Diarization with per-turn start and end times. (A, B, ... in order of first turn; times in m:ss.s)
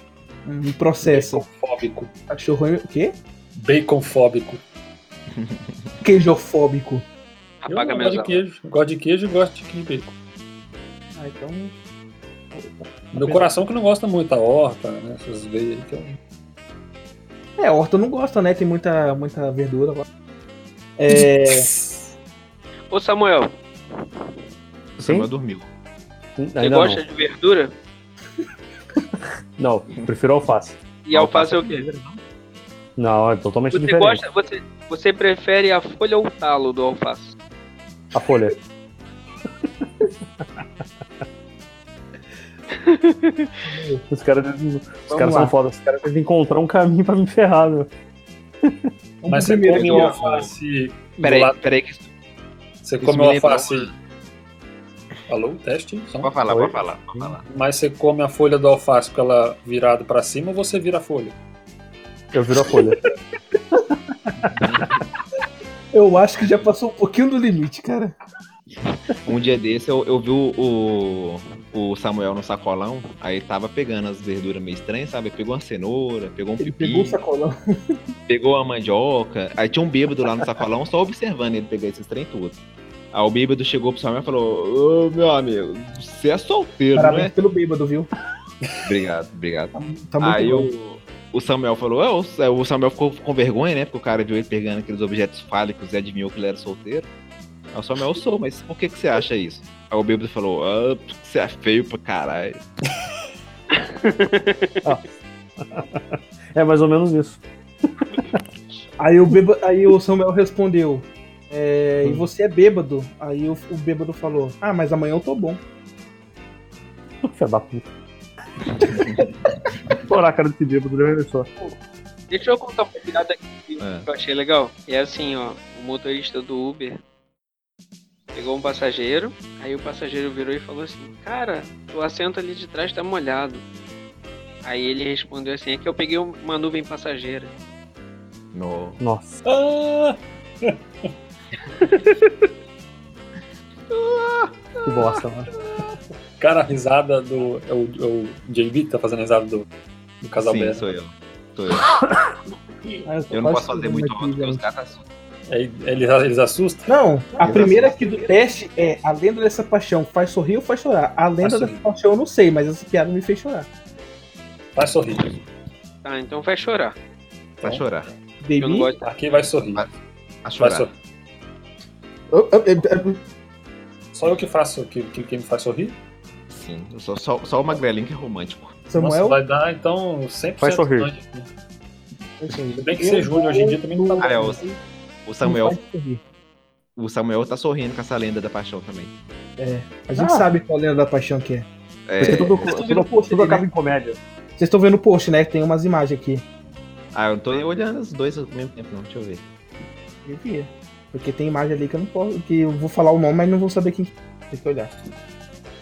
0:00.5-0:01.4 A
0:01.1-0:02.1 B
0:02.3-0:03.2 A
0:03.6-0:04.6 B
0:05.3-0:06.0 C
0:06.0-0:07.0 A
0:07.6-0:08.4 D
0:07.7-0:10.1 B
0:11.2-0:11.7 A
0:12.5-0:13.5 A
0:13.1-0:16.2 B
0:17.6-0:20.1 A
0:21.0-0:21.7 A
0:21.1-0:22.0 B
0:22.9-0:23.6 D
0:25.0-0:25.7 C
0:25.0-0:25.3 E
0:26.4-0:27.0 E
0:26.6-0:27.7 D
0:29.6-0:30.8 E
0:31.0-0:31.8 D
0:31.1-0:32.2 C
0:33.0-0:34.2 E
0:33.7-0:37.4 D
0:38.1-0:38.6 E
0:42.8-0:43.5 D
0:43.6-0:44.0 A
0:44.1-0:47.9 E
0:45.1-0:45.6 A
0:49.2-0:50.5 A
0:49.3-0:51.6 B
0:49.8-0:50.5 C
0:51.2-0:52.1 C
0:52.8-0:53.9 B
0:53.0-0:53.9 C
0:55.3-0:56.3 B
0:56.2-0:57.4 C
0:56.5-0:57.4 E
0:57.5-1:01.4 B
1:02.3-1:03.0 E
1:04.3-1:04.9 E
1:04.5-1:05.0 C
1:05.9-1:08.1 A
1:09.2-1:17.2 C
1:16.6-1:17.5 A
1:18.3-1:22.6 C
1:23.1-1:27.3 C
1:27.0-1:28.1 A
1:28.8-1:37.1 C
1:29.7-1:30.7 A
1:37.7-1:42.6 C
1:43.7-1:44.8 D
1:45.6-1:47.4 E
1:49.0-1:55.6 A
1:57.2-1:57.9 E
1:58.8-1:59.2 C
2:00.0-2:01.5 E
2:02.3-2:07.0 D
2:03.8-2:04.1 C
2:08.3-2:13.6 D
2:14.6-2:17.5 D
2:18.5-2:19.0 C
2:19.0-2:19.4 E
2:19.4-2:20.8 B
2:23.9-2:25.9 C
2:24.8-2:25.5 E
2:26.4-2:29.6 B
2:30.2-2:30.9 B
2:30.4-2:31.9 C
2:33.0-2:34.6 A
2:33.3-2:35.1 C
2:35.5-2:36.9 B
2:36.9-2:43.7 A
2:37.4-2:37.9 C
2:37.4-2:37.7 E
2:41.4-2:41.8 B
2:44.8-2:45.3 B
2:46.0-2:47.0 D
2:47.6-2:48.1 C
2:48.4-2:49.0 A
2:48.6-2:49.0 D
2:49.0-2:49.8 B
2:49.7-2:50.9 C
2:50.6-2:50.9 B
2:52.3-2:53.2 A
2:54.1-2:56.0 B
2:56.5-2:58.8 C
2:58.9-2:59.4 A
2:58.9-3:01.5 B
3:00.6-3:01.1 E
3:02.4-3:04.8 A
3:02.8-3:04.6 B
3:04.2-3:04.6 C
3:05.2-3:05.8 C
3:05.4-3:06.2 A
3:07.0-3:09.1 C
3:09.6-3:11.7 A
3:10.2-3:10.5 E
3:12.1-3:12.7 C
3:12.2-3:14.2 E
3:12.2-3:13.6 A
3:14.6-3:16.4 A
3:17.1-3:19.4 C
3:20.2-3:24.9 A